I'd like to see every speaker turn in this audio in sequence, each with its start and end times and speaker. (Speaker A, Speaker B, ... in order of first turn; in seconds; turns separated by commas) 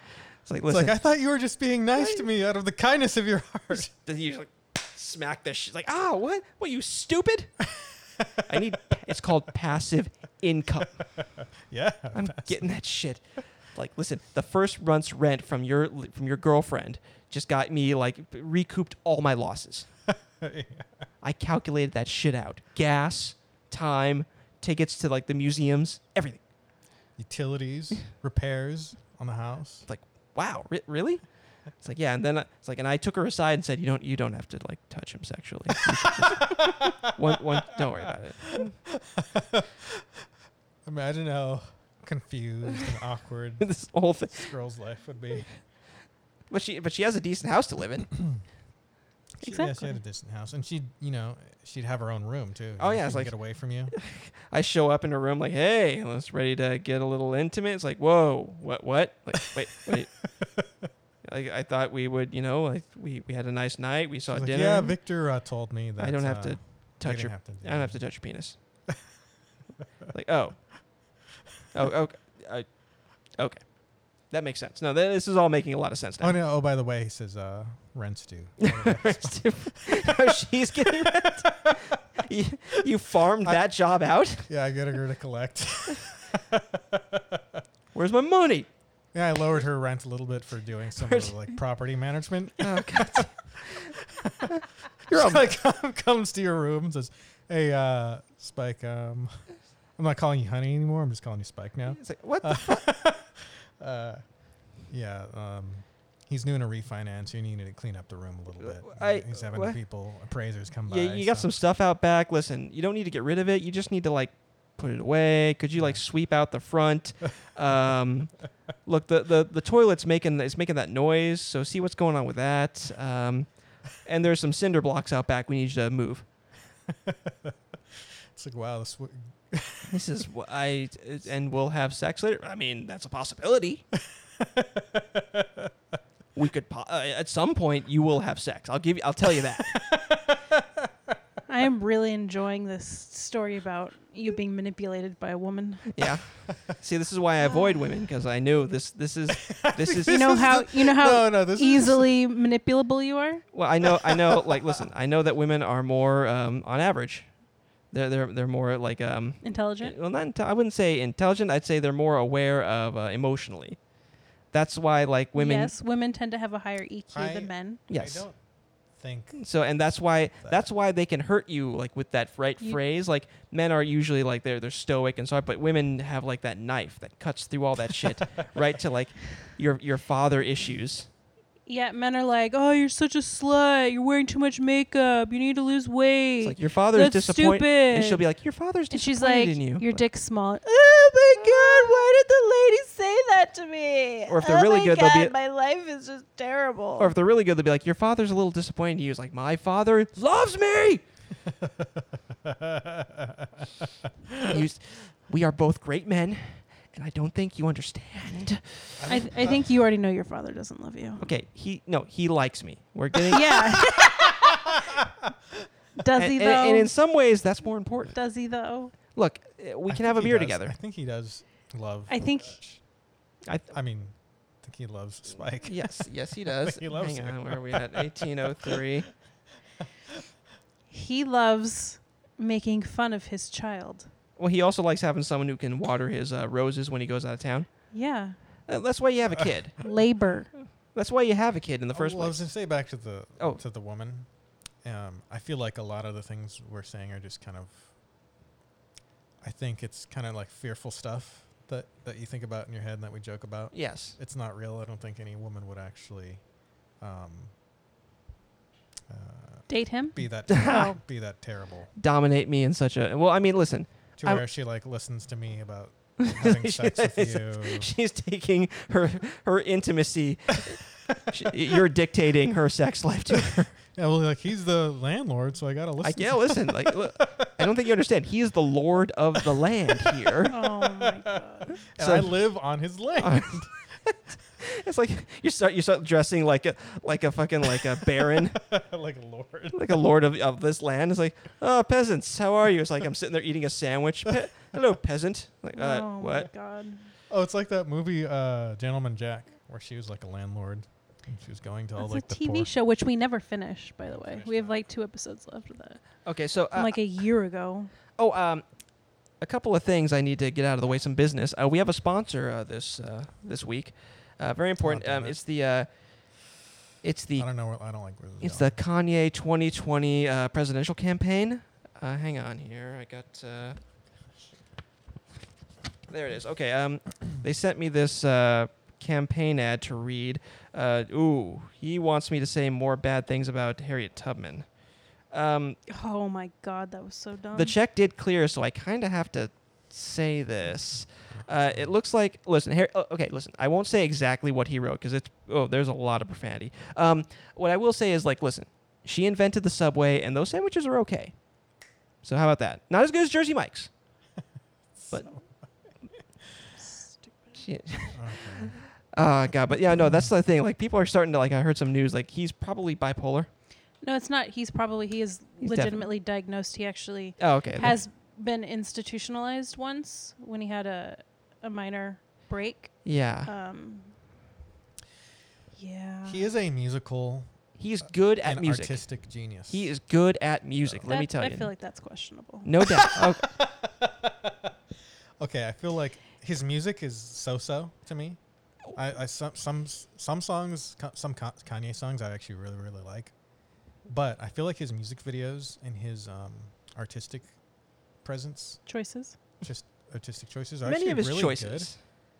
Speaker A: 0.4-0.9, Speaker B: 0.7-3.9, Speaker A: 3.7-7.5, Speaker B: 7.8-8.7, Speaker A: 8.5-11.0, Speaker B: 11.2-12.7, Speaker A: 12.1-19.9, Speaker B: 20.1-21.0, Speaker A: 21.2-26.4, Speaker B: 27.2-29.9, Speaker A: 29.9-31.2, Speaker A: 31.8-38.7, Speaker B: 36.2-37.2, Speaker B: 37.7-40.1, Speaker B: 40.8-43.8, Speaker A: 43.6-44.5, Speaker B: 44.3-45.5, Speaker A: 46.5-48.1, Speaker B: 49.4-53.9, Speaker C: 49.4-49.9, Speaker A: 52.8-53.3, Speaker A: 53.9-60.1, Speaker B: 59.6-60.9, Speaker A: 61.2-65.0, Speaker B: 64.3-68.0, Speaker A: 66.0-68.5, Speaker A: 70.1-70.6, Speaker A: 71.7-72.8, Speaker A: 73.4-73.7, Speaker A: 74.2-76.4, Speaker B: 76.2-82.0, Speaker A: 78.6-84.5, Speaker B: 84.5-87.6, Speaker A: 87.9-88.7, Speaker B: 89.1-94.5, Speaker A: 91.0-91.3, Speaker A: 92.6-93.9, Speaker A: 94.5-95.5, Speaker B: 95.1-99.4, Speaker B: 100.0-104.2, Speaker A: 101.9-102.8, Speaker B: 104.9-111.5, Speaker A: 108.6-109.8, Speaker A: 110.8-118.3, Speaker A: 118.8-126.2, Speaker B: 126.9-130.1, Speaker A: 129.9-133.8, Speaker B: 134.0-135.7, Speaker A: 136.3-139.7, Speaker B: 139.6-141.1, Speaker C: 141.5-145.9, Speaker A: 145.9-150.2, Speaker C: 147.4-147.8, Speaker B: 149.3-152.1, Speaker C: 150.1-153.4, Speaker A: 153.5-157.3, Speaker B: 153.9-154.8, Speaker A: 157.9-163.8, Speaker C: 159.4-159.9, Speaker A: 164.5-165.7, Speaker C: 165.3-167.8, Speaker B: 167.1-168.4, Speaker A: 167.9-168.2, Speaker B: 168.9-169.4, Speaker A: 169.3-181.1, Speaker C: 181.7-188.2, Speaker A: 186.4-190.0, Speaker C: 188.9-197.1, Speaker A: 194.3-195.3, Speaker A: 197.0-201.0, Speaker B: 201.4-204.6, Speaker A: 204.4-209.0, Speaker B: 209.0-209.6, Speaker C: 209.1-211.2, Speaker A: 211.2-213.8, Speaker C: 213.3-214.7, Speaker B: 213.9-215.3, Speaker C: 216.0-216.9, Speaker A: 216.1-218.2, Speaker C: 218.1-218.9, Speaker A: 219.1-220.7, Speaker B: 219.9-222.8, Speaker C: 222.1-222.6, Speaker B: 223.7-228.8, Speaker A: 225.6-229.1, Speaker C: 230.9-234.1, Speaker A: 234.4-237.7, Speaker C: 237.9-238.4, Speaker A: 238.7-239.8, Speaker C: 239.8-240.5, Speaker A: 240.9-242.4, Speaker B: 241.9-244.3, Speaker B: 244.8-247.9, Speaker B: 249.4-256.4, Speaker A: 253.7-254.2, Speaker B: 257.0-257.5, Speaker B: 259.1-261.9, Speaker C: 259.7-261.0, Speaker A: 260.5-260.8, Speaker A: 261.9-264.4, Speaker B: 264.2-267.9, Speaker A: 266.2-273.7, Speaker B: 273.9-277.7, Speaker A: 276.0-280.5, Speaker B: 280.0-283.7, Speaker C: 280.5-281.8, Speaker A: 282.0-282.3, Speaker A: 283.2-288.6, Speaker B: 288.0-290.0, Speaker A: 289.7-296.5, Speaker C: 295.7-297.1, Speaker B: 297.3-302.7, Speaker C: 302.0-307.9, Speaker B: 304.1-304.8, Speaker A: 306.2-307.0, Speaker A: 308.1-308.6, Speaker A: 309.4-315.9, Speaker B: 314.8-315.4, Speaker A: 317.0-317.5, Speaker B: 317.4-318.8, Speaker A: 318.4-323.8, Speaker A: 326.1-334.7, Speaker A: 335.3-335.8, Speaker C: 335.9-337.8, Speaker A: 337.5-351.3, Speaker B: 341.4-341.9, Speaker A: 352.2-353.9, Speaker B: 355.0-355.4, Speaker C: 356.8-357.6, Speaker A: 357.6-363.5, Speaker B: 358.1-358.8, Speaker C: 364.0-374.1, Speaker A: 365.6-366.1, Speaker A: 367.4-367.9, Speaker A: 373.0-373.5, Speaker C: 375.7-376.5, Speaker B: 376.2-377.5, Speaker A: 377.8-379.0, Speaker B: 378.4-379.9, Speaker A: 379.7-381.7, Speaker C: 381.1-383.1, Speaker A: 382.6-383.6, Speaker B: 383.1-384.7, Speaker B: 385.4-388.4, Speaker B: 388.9-393.3, Speaker B: 394.1-397.5, Speaker B: 398.2-398.8, Speaker C: 398.9-399.4, Speaker B: 399.6-401.9, Speaker A: 400.8-402.0